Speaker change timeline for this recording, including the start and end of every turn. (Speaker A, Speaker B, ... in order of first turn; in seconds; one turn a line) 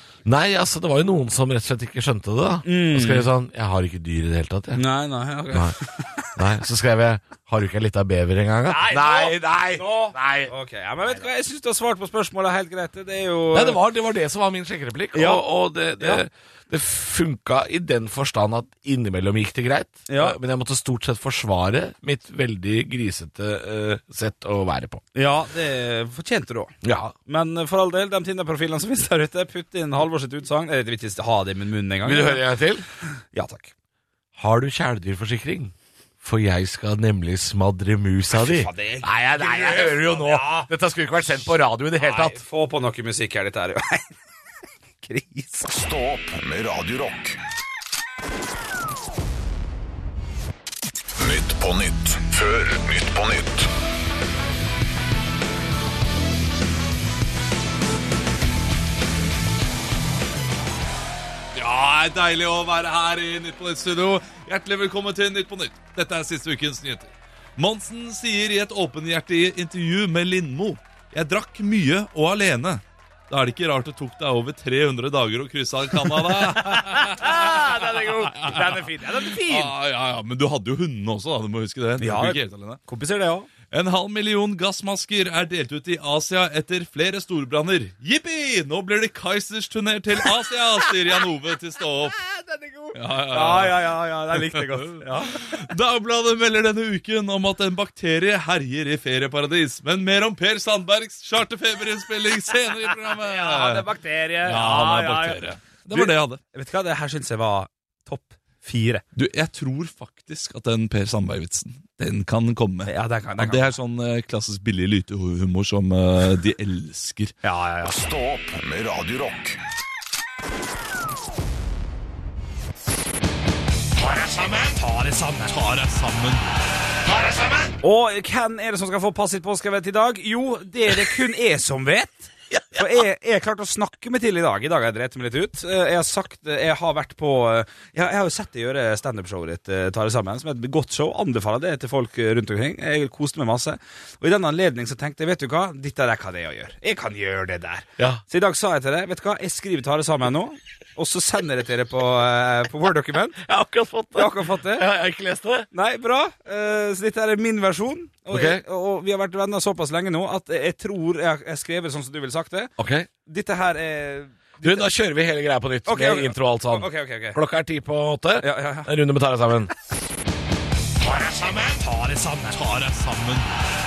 Speaker A: 0.2-4.8
Speaker B: 2.6-3.3
Speaker B: 4.7-6.4
Speaker A: 5.5-5.8
Speaker A: 6.3-10.5
Speaker B: 8.7-13.8
Speaker A: 13.5-25.0
Speaker B: 15.1-15.4
Speaker B: 20.1-20.4
Speaker B: 25.1-26.7
Speaker A: 26.8-27.1
Speaker B: 27.3-32.4
Speaker A: 32.0-32.9
Speaker B: 33.3-33.7
Speaker A: 34.4-42.4
Speaker B: 38.3-40.7
Speaker B: 41.4-44.1
Speaker B: 45.0-45.7
Speaker C: 45.7-47.4
Speaker C: 51.2-53.7
Speaker D: 61.5-82.8
Speaker B: 76.3-79.7
Speaker B: 82.0-83.5
Speaker D: 83.7-92.2
Speaker B: 92.2-95.7
Speaker D: 92.9-103.9
Speaker B: 103.0-109.0
Speaker D: 104.4-106.4
Speaker D: 109.1-117.3
Speaker B: 112.8-113.7
Speaker B: 117.4-117.9
Speaker C: 117.9-119.6
Speaker B: 124.6-125.6
Speaker D: 125.5-126.4
Speaker A: 127.1-127.6
Speaker B: 127.8-153.4
Speaker A: 153.4-155.7
Speaker B: 154.1-154.8
Speaker B: 155.7-162.7
Speaker A: 158.3-158.6
Speaker A: 162.8-163.1
Speaker B: 163.2-164.9
Speaker A: 164.6-169.7
Speaker B: 165.9-167.4
Speaker B: 168.4-168.9
Speaker A: 171.0-171.8
Speaker B: 171.8-172.6
Speaker D: 172.5-173.5